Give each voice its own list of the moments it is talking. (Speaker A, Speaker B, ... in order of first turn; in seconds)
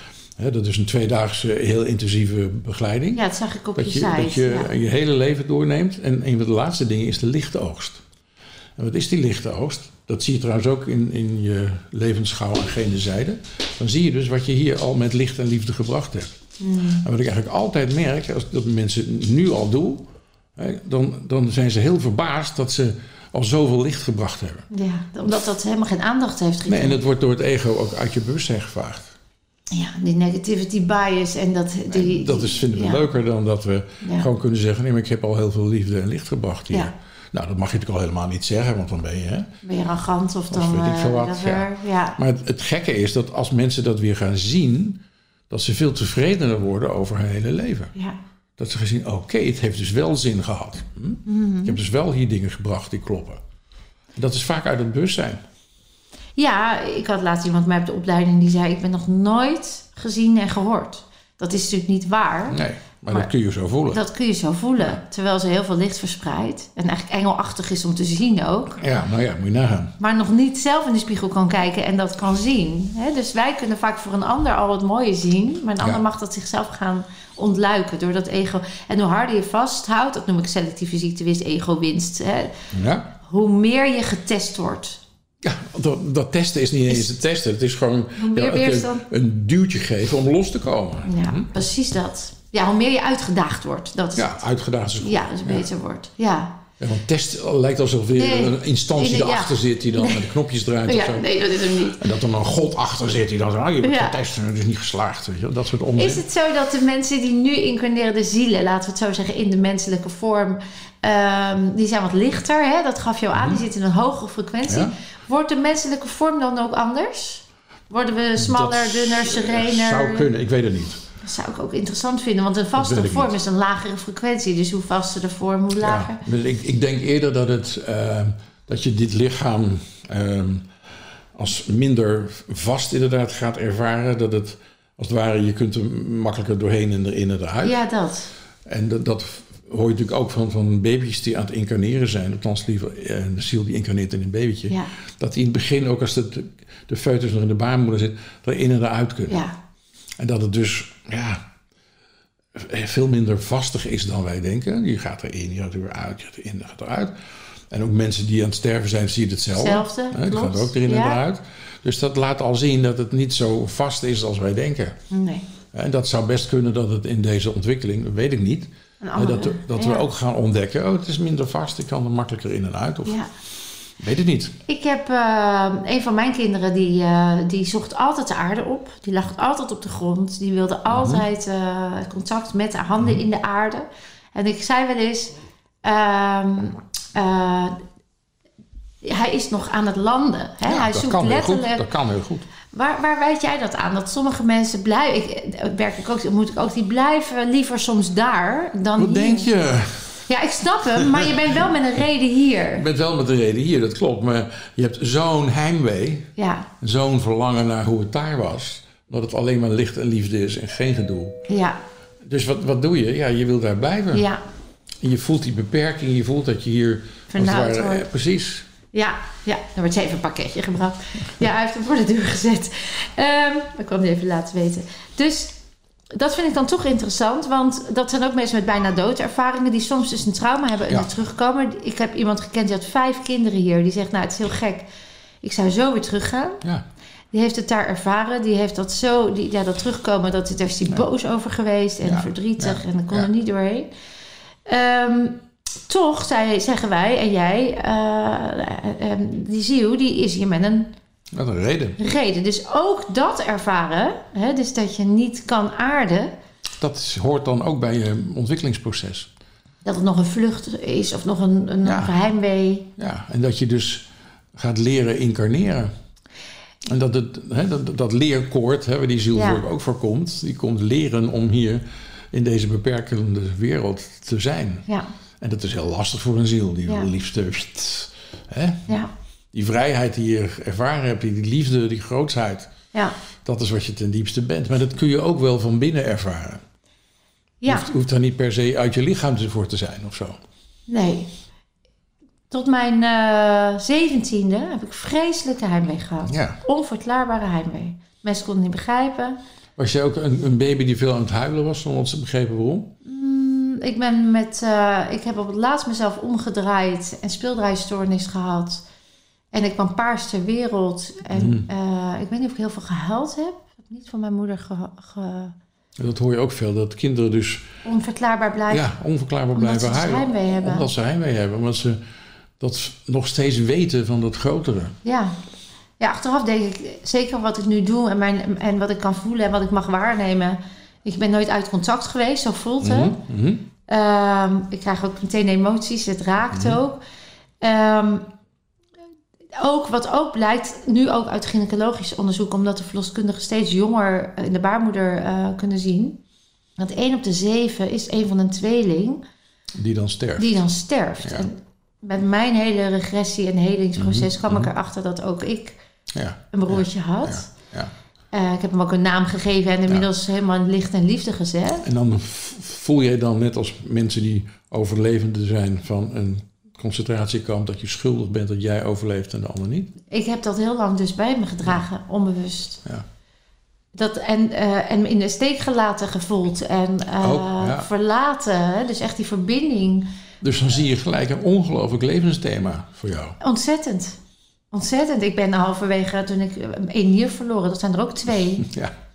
Speaker A: 0.4-3.2, 3.8-8.0, 8.8-16.3, 16.9-24.6, 26.7-29.1, 31.9-39.5, 40.5-47.9, 48.6-53.4, 54.1-55.4, 62.5-64.0, 68.8-69.9, 82.7-83.1, 85.4-91.5, 94.2-95.7, 96.8-106.2, 113.3-113.6, 114.7-114.9, 118.4-121.0, 122.8-123.3, 125.8-130.7, 131.3-137.8, 138.7-149.4, 150.2-151.4, 152.5-157.1, 157.7-165.0, 165.7-173.2, 174.0-174.6, 180.9-181.2, 190.6-192.5, 199.0-200.2, 200.9-201.5, 202.7-211.4, 212.2-214.3, 215.0-218.7, 230.9-231.1, 242.0-243.3, 251.3-252.0, 256.8-259.3, 261.8-262.1, 263.0-265.9, 266.8-274.9, 275.4-278.9, 279.5-282.7, 283.4-286.6, 287.6-290.4, 296.3-296.6, 299.8-302.9, 311.3-311.7, 316.0-317.7, 318.7-322.0, 322.6-324.9, 332.8-333.6, 336.5-336.8, 349.7-350.6, 354.0-354.7, 356.1-357.9, 361.8-369.9, 377.2-377.9, 380.4-383.4, 388.6-388.9
Speaker B: 3.1-4.7, 16.6-17.0, 24.7-27.0, 29.7-33.0, 34.0-34.3, 39.6-42.2, 51.2-51.8, 56.4-63.3, 63.9-68.8, 70.0-82.6, 83.2-85.0, 88.2-89.0, 91.0-94.4, 95.0-96.6, 98.2-100.3, 100.8-102.1, 103.8-104.2, 105.9-120.3, 121.2-126.2, 137.6-138.3, 149.3-149.6, 159.5-161.2, 165.1-165.4, 169.0-170.1, 174.7-187.8, 189.0-191.8, 192.7-199.5, 200.3-202.8, 206.4-206.7, 211.5-211.8, 214.1-214.4, 217.3-218.1, 218.9-225.6, 226.1-234.9, 235.4-236.6, 237.3-243.9, 244.7-250.9, 252.0-256.3, 259.8-262.9, 269.3-269.6, 287.6-287.9, 290.9-291.3, 292.5-299.4, 303.0-308.8, 309.5-315.5, 317.8-318.9, 319.5-320.9, 325.0-325.4, 326.0-333.2, 333.9-337.0, 337.6-338.3, 339.6-346.2, 346.8-349.2, 350.4-355.8, 356.5-357.5, 358.3-361.9, 370.1-372.8, 373.9-380.1, 383.4-384.2, 384.7-388.7